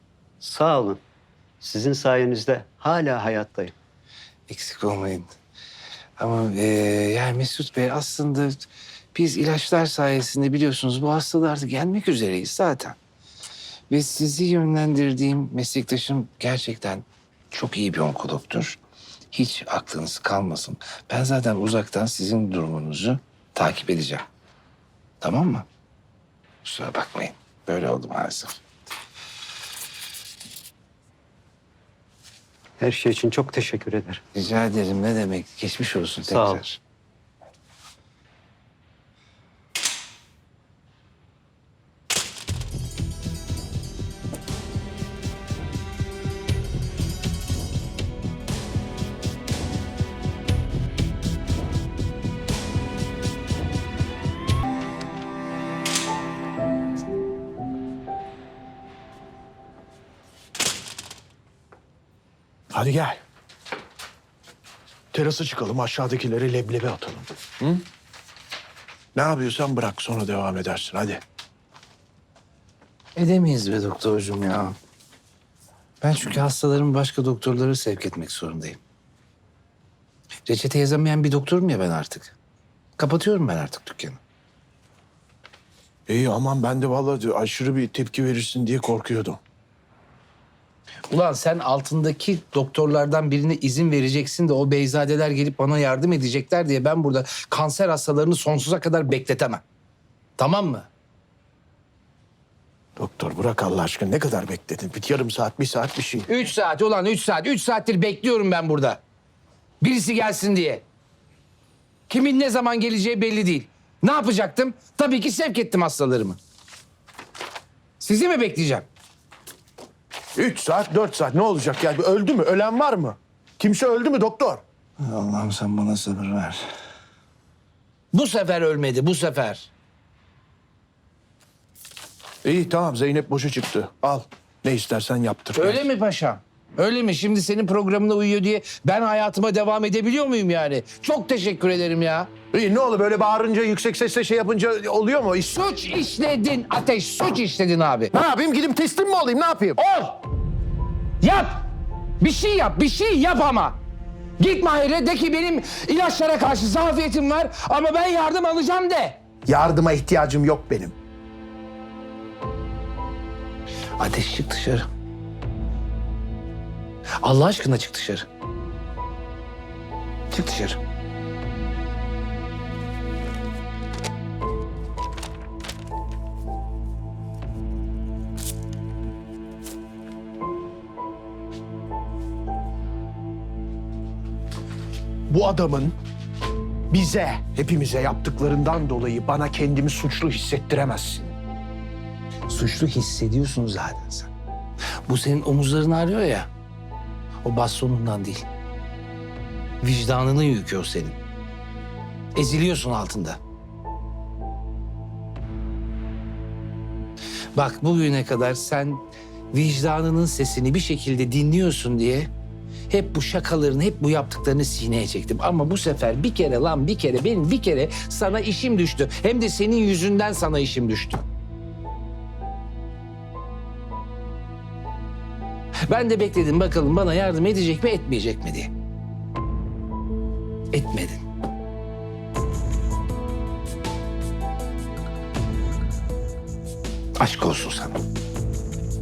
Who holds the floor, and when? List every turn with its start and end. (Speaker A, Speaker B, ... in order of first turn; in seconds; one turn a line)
Speaker A: 0.4-1.0
Speaker A: 1.6-3.7
Speaker B: 4.5-5.3
Speaker B: 6.2-13.0
Speaker B: 13.9-18.8
Speaker B: 19.3-24.2
Speaker B: 25.2-25.6
Speaker B: 26.6-28.6
Speaker A: 32.8-34.2
Speaker B: 34.3-36.8
Speaker A: 36.3-36.6
Speaker C: 62.7-63.2
Speaker C: 65.1-67.8
Speaker C: 69.1-71.2
Speaker B: 73.2-74.8
Speaker B: 76.0-78.8
Speaker B: 80.5-82.4
Speaker B: 83.0-84.2
Speaker C: 86.1-89.4
Speaker B: 91.1-99.6
Speaker B: 100.4-100.9
Speaker C: 103.0-106.3
Speaker B: 106.3-109.0
Speaker B: 109.8-110.8
Speaker B: 112.1-116.4
Speaker B: 118.0-118.9
Speaker C: 120.4-124.6
Speaker B: 125.0-126.7
Speaker B: 128.1-129.7
Speaker C: 132.4-135.8
Speaker B: 135.5-142.3
Speaker C: 142.5-145.6
Speaker B: 145.5-148.1
Speaker C: 148.1-149.8
Speaker B: 149.8-150.2
Speaker B: 151.2-151.6
Speaker B: 152.2-153.8
Speaker B: 154.4-159.2
Speaker C: 159.5-160.9
Speaker B: 164.0-164.8
Speaker B: 167.2-168.2
Speaker B: 170.3-170.8
Speaker C: 185.3-186.0
Speaker C: 186.9-191.3
Speaker B: 192.5-194.3
Speaker B: 195.0-196.5
Speaker B: 197.4-198.4
Speaker B: 199.8-201.2
Speaker B: 202.3-203.4
Speaker B: 207.5-212.3
Speaker B: 212.9-221.2
Speaker B: 225.9-228.7
Speaker B: 230.7-231.2
Speaker B: 237.2-238.0